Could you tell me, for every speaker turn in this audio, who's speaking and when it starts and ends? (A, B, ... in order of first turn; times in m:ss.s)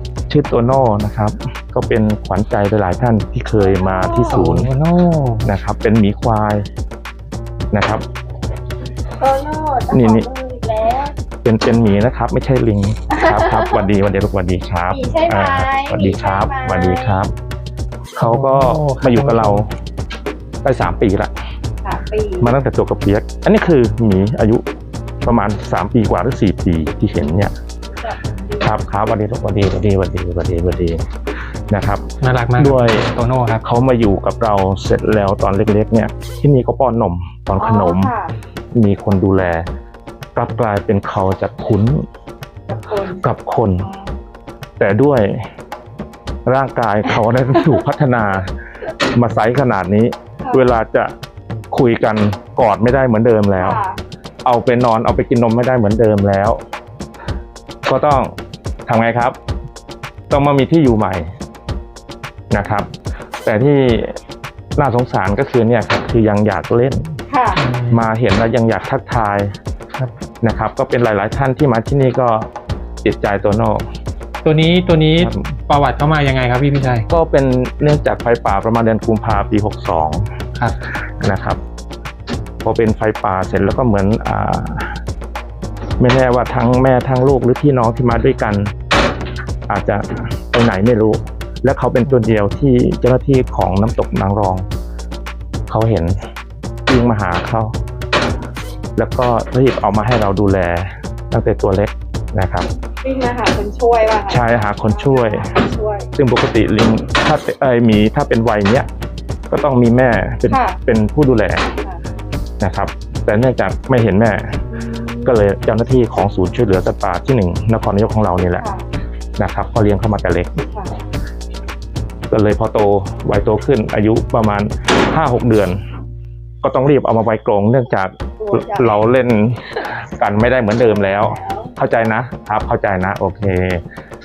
0:00.3-0:04.7 A
0:03.6-0:04.5 B
0:04.3-0:05.5 C
0:05.4-0:06.7 A
0:07.7-0:08.0 A
0:09.2-0:11.1 B
0:09.9-0:10.3 A
0:11.4-0:17.3 A
0:13.1-0:13.8 B
0:14.9-0:17.2 B
0:18.2-0:19.7 C
0:18.2-0:19.7 A
0:20.6-0:21.3 A
0:21.8-0:22.5 B
0:22.4-0:24.6 A
0:25.2-0:27.5 A
0:28.0-0:28.8 B
0:28.6-0:31.0 A
0:31.7-0:38.1 A
0:32.2-0:33.6 C
0:37.6-0:38.3 B
0:38.7-0:39.7 A
0:40.3-0:42.0 A
0:42.7-0:43.2 B
0:43.2-0:43.9 A
0:43.8-0:44.1 B
0:44.8-0:45.5 A
0:46.4-0:51.1 A
0:51.7-0:53.8 A
0:53.6-0:54.0 B
0:54.4-0:56.6 A
0:57.8-0:58.3 A
0:58.9-0:59.4 A
1:00.3-1:01.3 A
1:02.5-1:02.9 A
1:03.4-1:04.2 A
1:04.8-1:07.2 A
1:07.3-1:07.6 B
1:07.6-1:08.0 C
1:07.9-1:09.6 A
1:10.4-1:12.5 A
1:13.0-1:13.8 A
1:14.4-1:17.1 C
1:15.2-1:15.5 A
1:17.1-1:20.2 A
1:21.2-1:21.6 A
1:22.6-1:25.0 A
1:26.0-1:28.7 A
1:29.7-1:34.6 A
1:35.7-1:36.3 A
1:36.9-1:37.7 A
1:39.0-1:42.7 A
1:43.0-1:46.1 B
1:44.3-1:45.5 A
1:46.2-1:48.9 A
1:49.5-1:51.7 A
1:50.5-1:50.8 B
1:51.7-1:52.0 B
1:52.6-1:54.6 A
1:54.7-1:55.3 B
1:55.2-1:58.6 A
1:58.6-1:58.8 B
1:59.4-2:00.6 A
2:02.3-2:05.8 A
2:06.6-2:13.8 A
2:08.4-2:08.9 B
2:10.8-2:11.8 B